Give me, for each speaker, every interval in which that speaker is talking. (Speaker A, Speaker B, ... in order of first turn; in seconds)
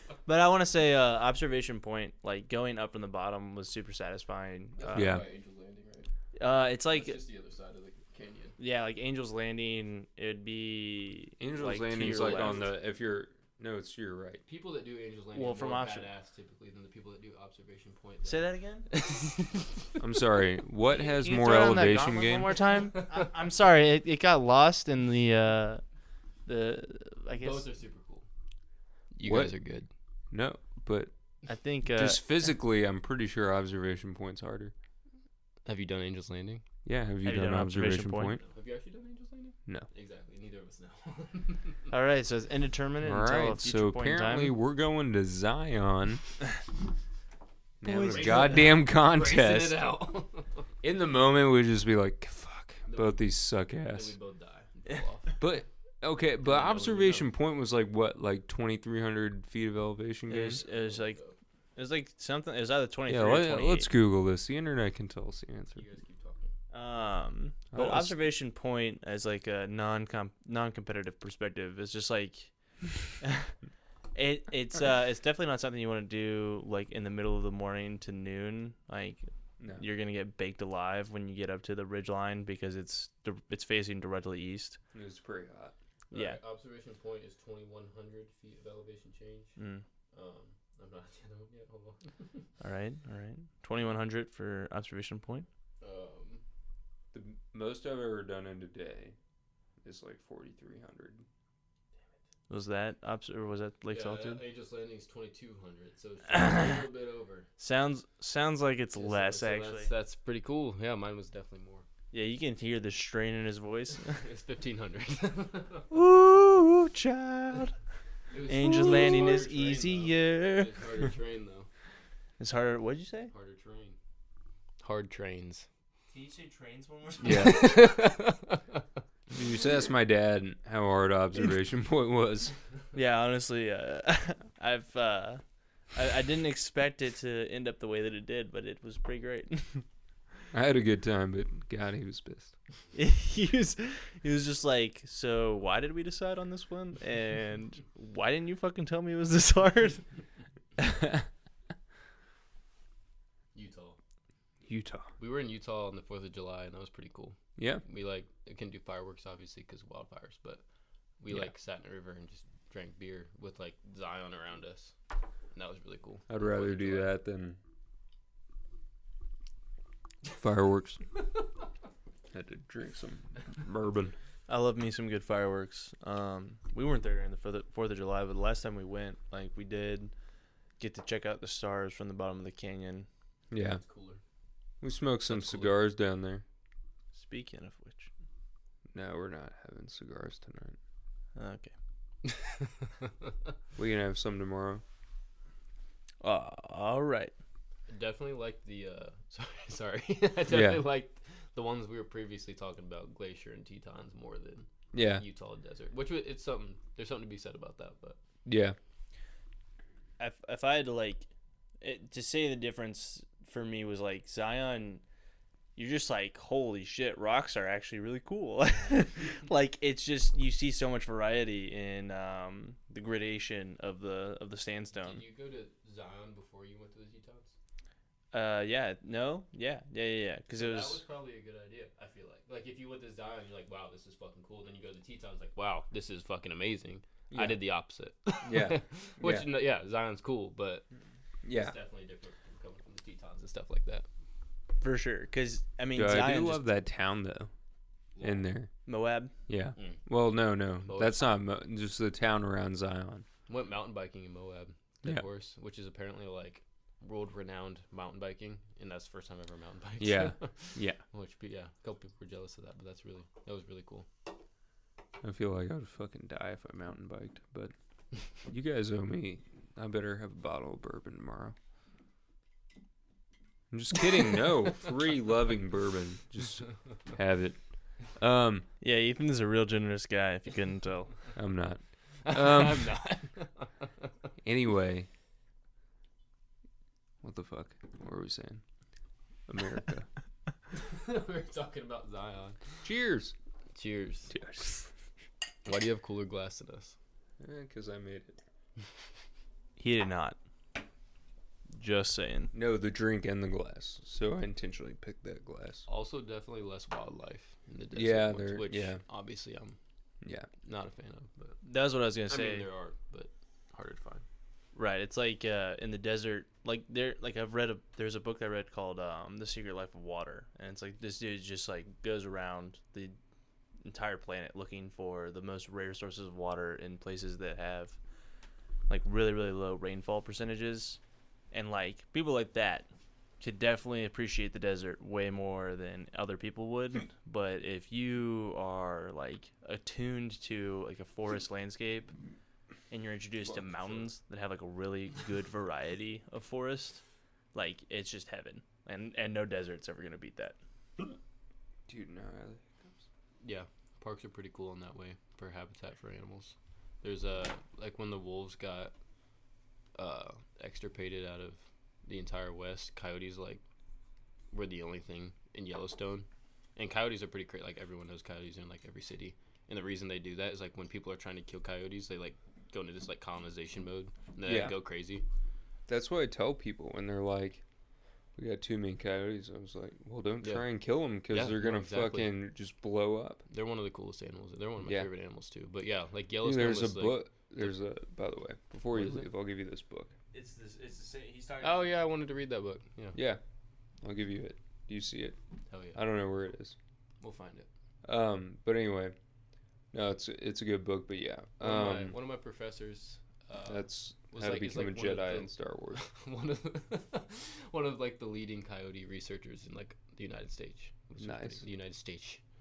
Speaker A: 0.3-5.2, 6.3-7.2, 8.6-12.7, 15.3-16.1, 18.2-18.9, 20.9-25.8, 26.4-27.6, 31.5-32.2, 37.2-38.4, 41.9-44.5, 47.8-48.7, 60.3-61.2, 61.8-63.9, 66.7-72.5, 73.2-73.5, 74.1-84.8, 86.1-86.4, 89.6-89.8, 92.6-95.5, 102.5-104.4, 106.3-106.8, 107.6-109.9, 112.1-114.2, 115.9-117.7, 118.5-120.9, 122.4-123.3, 126.1-127.7, 132.9-135.4, 135.9-139.8, 142.9-150.0, 174.5-180.1, 180.8-183.1, 187.1-188.1, 191.4-191.7, 196.2-197.3, 210.2-211.3, 211.8-215.0, 215.8-225.2, 228.3-231.0, 244.8-246.6, 248.9-249.3, 278.8-281.1, 299.8-300.4, 301.7-302.5, 311.6-312.7, 314.7-323.2, 323.9-328.0, 328.9-331.0, 331.5-332.9, 333.4-342.1, 342.9-347.0, 347.5-350.6, 390.3-391.9
Speaker B: 4.8-6.1, 6.9-8.6, 12.0-12.7, 14.4-19.9, 27.3-28.3, 29.1-29.9, 35.6-36.6, 38.4-41.9, 48.1-50.7, 52.9-53.3, 53.8-55.5, 56.4-57.3, 60.5-61.4, 65.7-66.6, 86.1-89.6, 90.1-92.5, 95.8-96.4, 103.9-107.5, 109.0-111.9, 114.1-115.9, 118.3-121.7, 123.3-124.0, 124.8-125.7, 127.2-128.8, 153.5-154.0, 155.2-160.6, 161.2-164.9, 165.5-167.1, 183.6-184.2, 185.3-185.8, 192.3-193.1, 197.9-208.2, 224.9-227.6, 230.5-240.9, 241.5-244.1, 248.2-248.4, 249.8-250.0, 250.8-251.3, 253.5-264.1, 282.2-283.9, 290.7-292.8, 293.7-294.3, 295.6-296.9, 305.9-309.8, 310.6-311.6, 312.3-314.2, 343.5-344.1, 353.4-358.9, 359.9-363.6, 364.5-375.2, 380.4-380.7, 381.3-382.3, 383.5-387.7, 388.9-389.3, 391.6-393.2, 395.7-396.0, 397.2-397.7, 401.6-412.4
Speaker C: 5.0-5.2, 11.4-14.4, 20.0-22.6, 29.2-29.6, 30.3-31.1, 31.9-34.7, 36.9-38.4, 43.0-46.2, 47.8-49.8, 50.8-54.1, 55.4-60.6, 63.1-65.8, 67.7-68.1, 84.9-85.7, 97.1-99.2, 99.8-101.2, 127.2-127.6, 129.3-132.5, 140.5-142.5, 154.7-155.1, 157.6-157.8, 166.3-167.6, 170.3-171.0, 172.3-174.1, 183.5-183.8, 184.8-186.4, 188.9-190.8, 193.8-194.8, 200.5-200.8, 204.9-205.2, 208.4-208.8, 237.3-237.6, 238.4-239.5, 241.4-241.8, 245.9-247.5, 248.2-248.7, 249.5-253.3, 260.0-261.0, 265.2-267.7, 268.4-271.6, 273.7-277.6, 278.1-278.7, 281.4-282.9, 284.4-285.1, 287.2-288.6, 289.5-290.1, 292.8-293.3, 294.3-294.9, 297.4-298.4, 302.5-305.9, 307.9-309.0, 310.2-310.5, 351.9-353.0, 374.4-374.8, 375.9-377.6, 378.4-383.4, 384.8-385.1, 386.4-390.1, 393.1-393.4, 394.0-395.4, 395.9-396.8, 398.1-399.1, 399.9-402.1, 403.7-406.0, 411.2-411.6